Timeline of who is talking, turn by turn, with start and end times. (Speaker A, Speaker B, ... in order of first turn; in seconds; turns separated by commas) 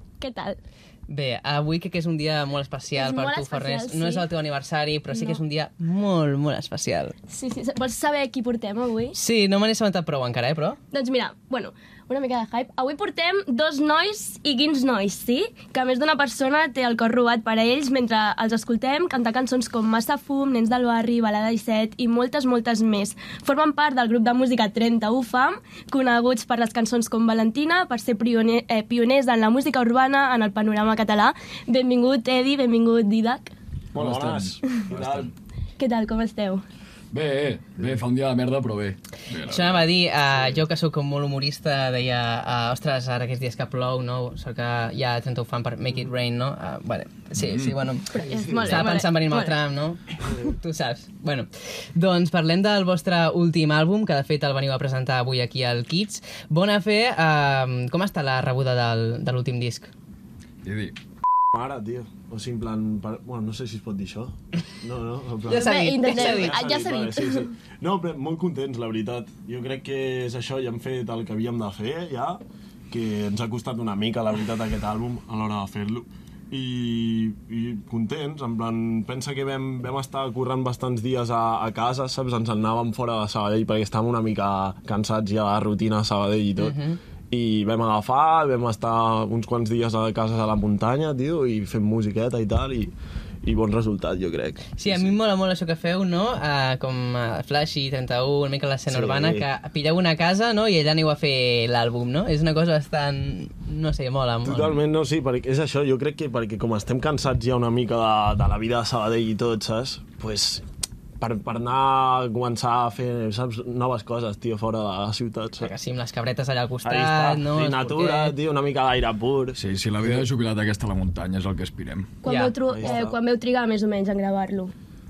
Speaker A: 0.2-0.6, Speaker B: 1.1-7.2, Speaker A: 3.0-4.3, Speaker A: 5.1-5.4, Speaker A: 7.3-9.2, Speaker B: 9.1-10.8, Speaker A: 10.9-33.5, Speaker C: 33.9-35.3, Speaker D: 34.0-35.3, Speaker A: 35.8-36.6, Speaker D: 37.1-39.9, Speaker B: 39.5-59.9, Speaker D: 47.4-47.8, Speaker A: 48.1-49.5, Speaker C: 48.3-48.6, Speaker D: 60.6-61.0, Speaker C: 61.5-86.8, Speaker B: 65.5-66.6, Speaker A: 65.5-67.5, Speaker B: 86.6-87.0, Speaker C: 87.3-95.1, Speaker B: 94.8-104.7, Speaker C: 98.9-99.5, Speaker C: 104.5-110.7, Speaker C: 111.2-115.7, Speaker B: 115.6-118.4, Speaker C: 116.8-120.2, Speaker D: 119.5-122.1, Speaker A: 122.2-124.7, Speaker B: 122.2-122.6, Speaker C: 122.7-123.2